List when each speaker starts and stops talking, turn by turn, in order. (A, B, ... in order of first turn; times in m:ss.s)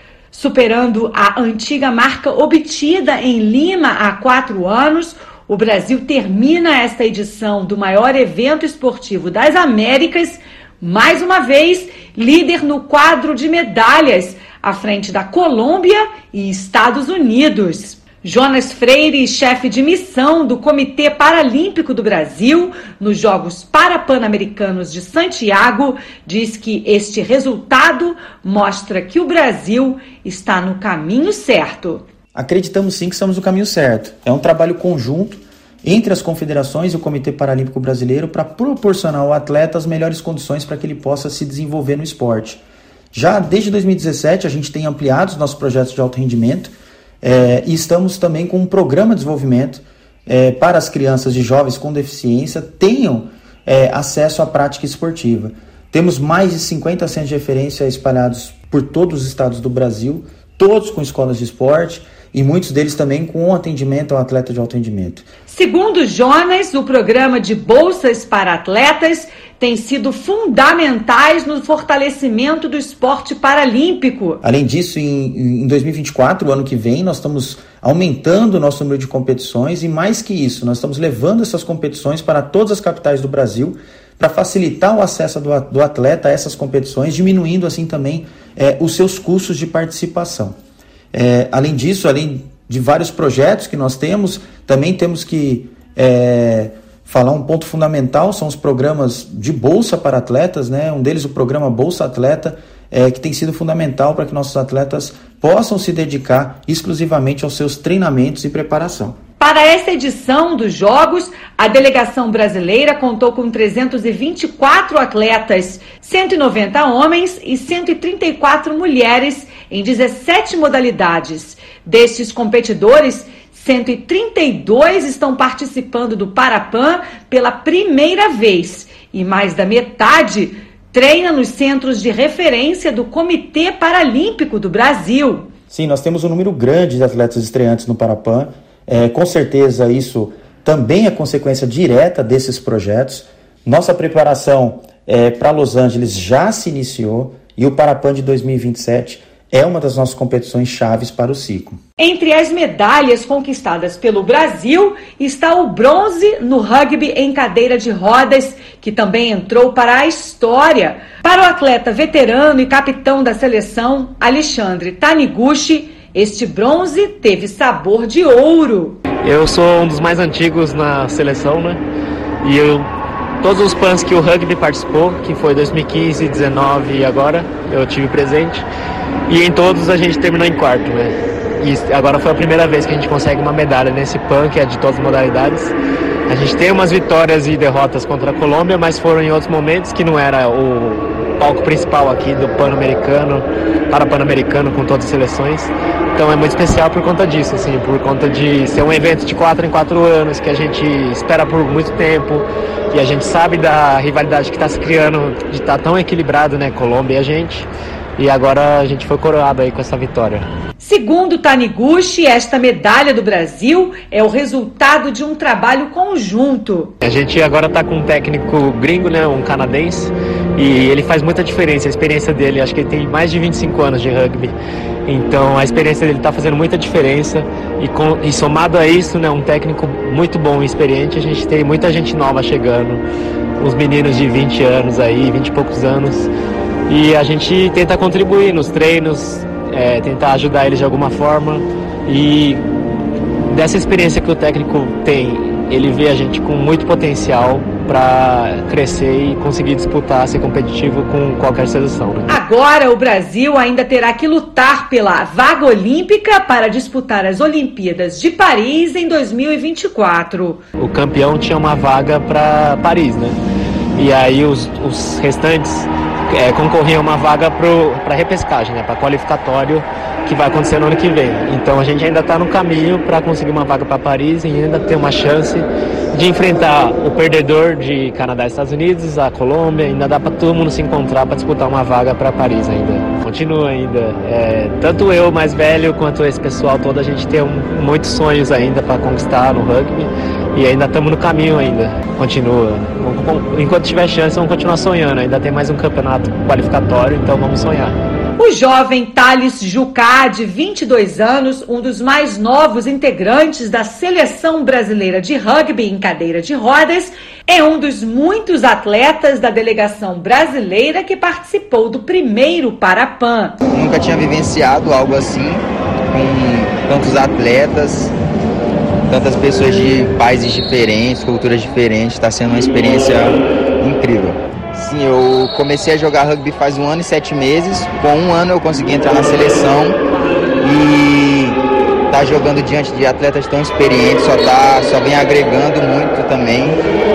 0:00.3-0:32.0 A
0:32.3-0:42.6 B
0:43.1-1:05.3 B
1:05.5-1:14.4 A
1:14.4-1:30.6 B
1:31.1-1:49.2 B
1:49.4-2:15.5 A
2:15.7-2:31.8 B
2:32.0-2:49.0 A
2:49.2-2:51.8 C
2:52.4-2:52.9 C
2:53.4-2:58.6 C
2:59.3-3:05.7 C
3:06.3-3:30.4 C
3:30.8-3:37.0 A
3:37.0-3:44.5 C
3:45.1-3:53.0 C
3:53.6-3:56.3 C
3:56.9-4:02.6 C
4:03.5-4:12.4 C
4:12.3-4:20.6 A
4:20.8-4:23.4 C
4:24.0-4:58.0 C
4:58.4-5:13.6 A
5:13.7-5:18.1 D
5:19.1-5:30.0 D
5:30.6-5:36.8 D